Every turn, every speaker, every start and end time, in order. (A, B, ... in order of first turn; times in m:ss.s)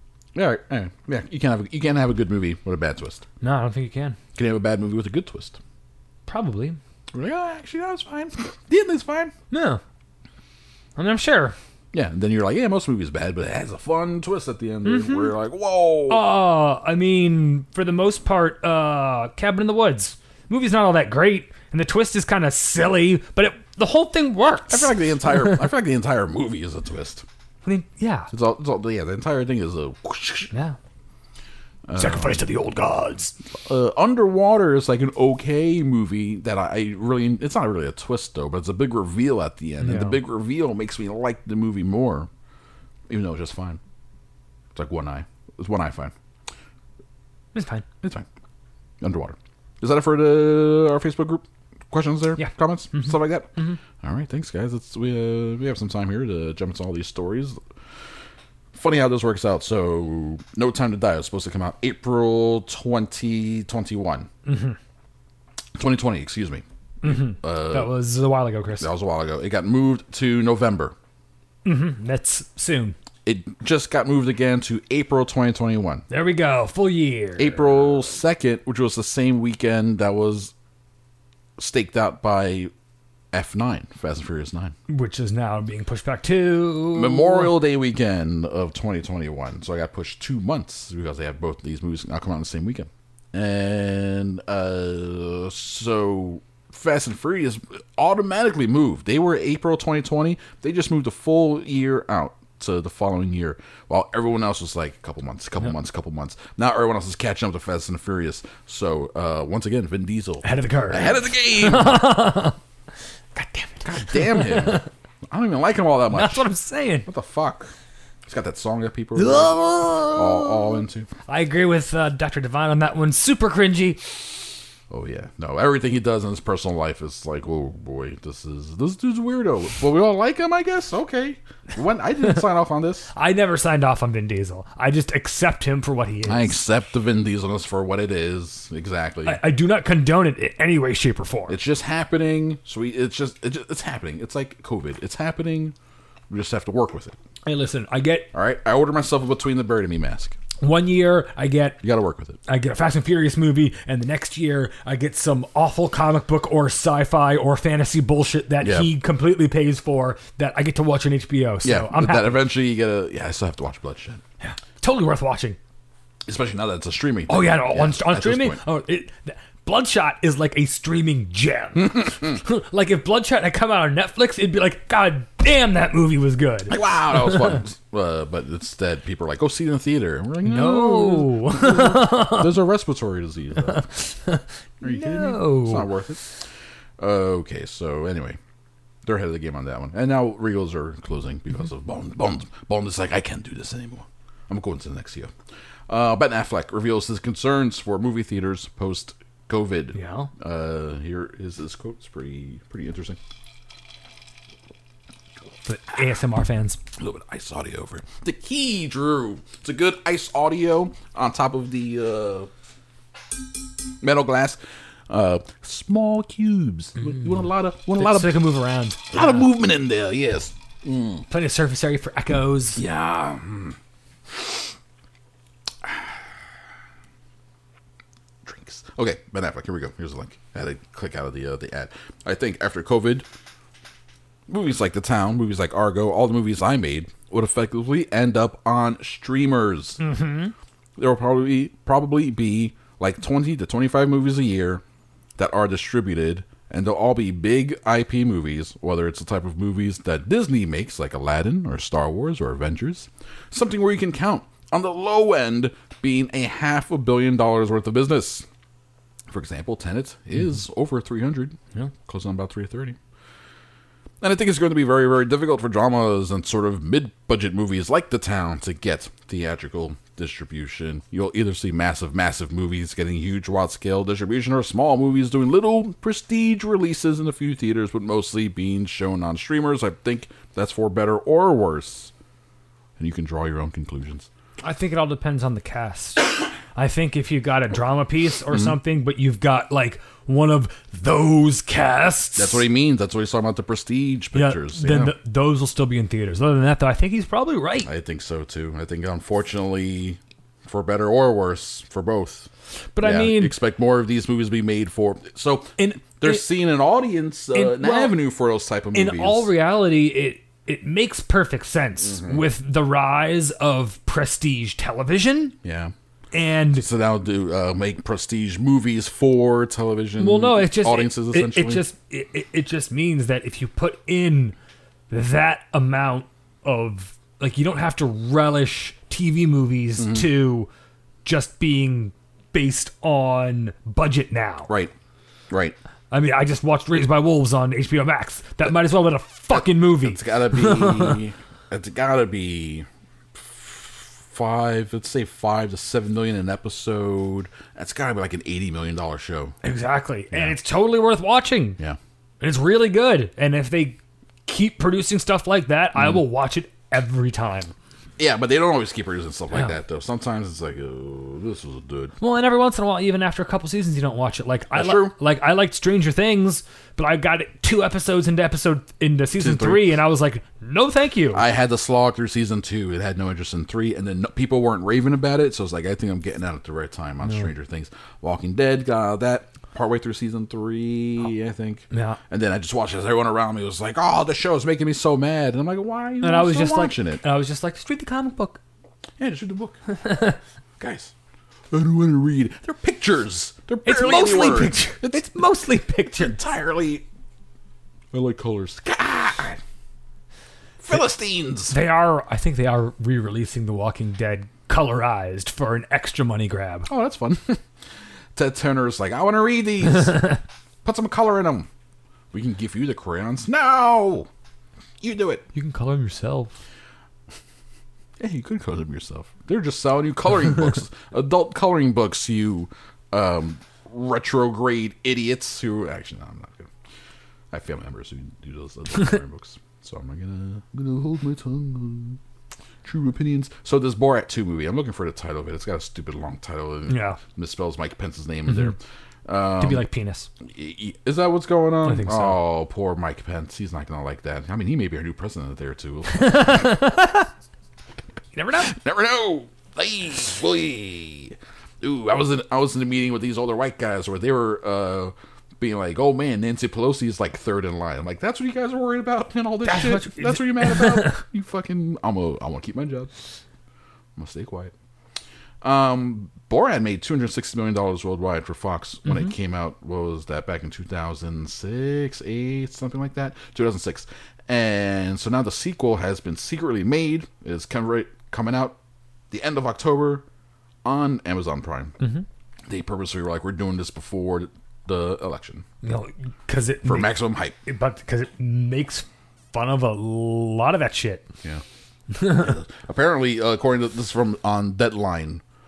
0:00.4-0:03.3 A
0:03.4-0:04.2 B
0:04.4-0:05.6 A
0:06.3-0:06.8 B
0:07.1-0:09.3 A
0:09.5-0:09.8 B
0:11.0-0:11.6 B
0:11.9-0:16.3 A
0:14.8-0:15.3 B
0:16.1-0:25.6 B
0:24.7-0:27.3 A
0:27.6-0:28.3 B
0:28.3-0:30.5 A
0:30.5-0:30.8 B
0:31.9-0:32.4 A
0:32.0-0:33.4 B
0:33.6-0:42.3 A
0:39.8-0:40.2 B
0:43.1-0:43.8 A
0:44.8-0:46.1 A
0:47.5-0:47.8 B
0:48.0-0:48.3 A
0:49.0-0:53.5 A
0:52.4-0:53.8 B
0:54.0-0:57.6 A
0:58.7-1:04.3 A
1:04.5-1:04.8 B
1:05.8-1:08.0 A
1:07.0-1:08.9 B
1:08.8-1:11.0 A
1:11.6-1:13.0 B
1:13.2-1:16.0 A
1:16.1-1:18.1 B
1:17.4-1:20.5 A
1:21.6-1:22.7 A
1:23.3-1:24.7 A
1:24.9-1:27.5 B
1:26.9-1:52.3 A
1:50.4-1:52.6 B
1:53.4-1:54.9 B
1:53.8-1:56.5 A
1:56.1-1:57.1 B
1:57.1-1:57.7 A
1:58.3-2:01.1 A
1:59.2-2:04.1 B
2:04.9-2:13.1 A
2:13.1-2:16.6 B
2:16.2-2:19.4 A
2:19.2-2:21.6 B
2:21.5-2:25.8 A
2:26.3-2:27.2 A
2:27.5-2:28.3 B
2:28.3-2:30.4 A
2:30.6-2:31.8 B
2:31.8-2:32.4 A
2:32.5-2:42.5 B
2:38.6-2:38.9 A
2:41.6-2:44.2 A
2:44.4-2:45.6 B
2:46.3-2:48.6 A
2:47.3-2:57.6 B
2:51.8-2:52.3 A
2:56.7-3:03.9 A
3:00.4-3:02.5 B
3:03.6-3:05.9 B
3:04.8-3:06.3 A
3:07.0-3:08.4 A
3:09.0-3:15.3 A
3:15.9-3:23.2 A
3:20.0-3:20.3 B
3:25.6-3:26.8 B
3:27.0-3:32.5 A
3:34.0-3:38.5 A
3:37.9-3:39.5 B
3:39.1-3:41.2 A
3:41.3-3:42.8 B
3:42.8-3:43.8 A
3:45.8-3:46.1 A
3:48.4-3:53.3 A
3:54.5-4:00.0 A
4:00.0-4:00.5 B
4:01.0-4:04.8 A
4:05.4-4:18.5 A
4:19.3-4:23.0 A
4:24.2-4:42.1 A
4:43.0-4:44.3 A
4:44.6-4:52.7 B
4:48.5-4:48.8 A
4:52.4-4:55.2 A
4:54.3-4:57.9 B
4:57.8-5:02.5 A
5:03.0-5:03.6 B
5:03.0-5:09.5 A
5:05.8-5:06.5 B
5:07.5-5:08.2 B
5:08.9-5:15.6 B
5:12.0-5:12.4 A
5:15.6-5:15.9 A
5:16.3-5:16.8 B
5:16.7-5:21.8 A
5:20.2-5:24.6 B
5:25.1-5:30.7 B
5:30.0-5:30.3 A
5:31.2-5:34.7 B
5:34.7-5:34.9 A
5:35.5-5:35.8 A
5:36.1-5:41.2 B
5:39.5-5:49.6 A
5:49.6-5:51.8 B
5:50.3-5:50.6 A
5:52.4-5:57.7 B
5:58.2-6:02.1 A
6:02.2-6:11.4 B
6:04.7-6:05.2 A
6:09.4-6:10.0 A
6:11.3-6:27.2 A
6:21.9-6:22.2 B
6:26.2-6:28.6 B
6:29.2-6:29.8 A
6:30.0-6:30.4 B
6:30.8-6:31.1 A
6:31.7-6:35.3 A
6:33.8-6:36.4 B
6:36.1-6:37.0 A
6:38.1-6:39.6 A
6:40.8-6:41.8 A
6:41.7-6:46.9 B
6:46.9-6:47.6 A
6:48.4-6:51.7 A
6:52.3-6:54.3 A
6:55.0-6:55.4 A
6:55.5-6:56.6 B
6:58.2-7:06.7 A
7:07.5-7:12.2 A
7:12.8-7:19.9 A
7:16.9-7:17.2 B
7:18.5-7:18.8 B
7:19.6-7:20.3 B
7:20.4-7:26.9 A
7:21.8-7:22.4 B
7:26.1-7:27.3 B
7:28.4-7:28.7 B
7:28.6-7:43.1 A
7:39.6-7:41.2 B
7:44.2-7:44.7 A
7:45.6-7:58.8 A
7:59.3-8:00.2 A
8:00.8-8:02.0 A
8:02.0-8:02.2 B
8:02.7-8:05.6 A
8:05.8-8:11.3 B
8:06.8-8:07.6 A
8:12.2-8:15.4 A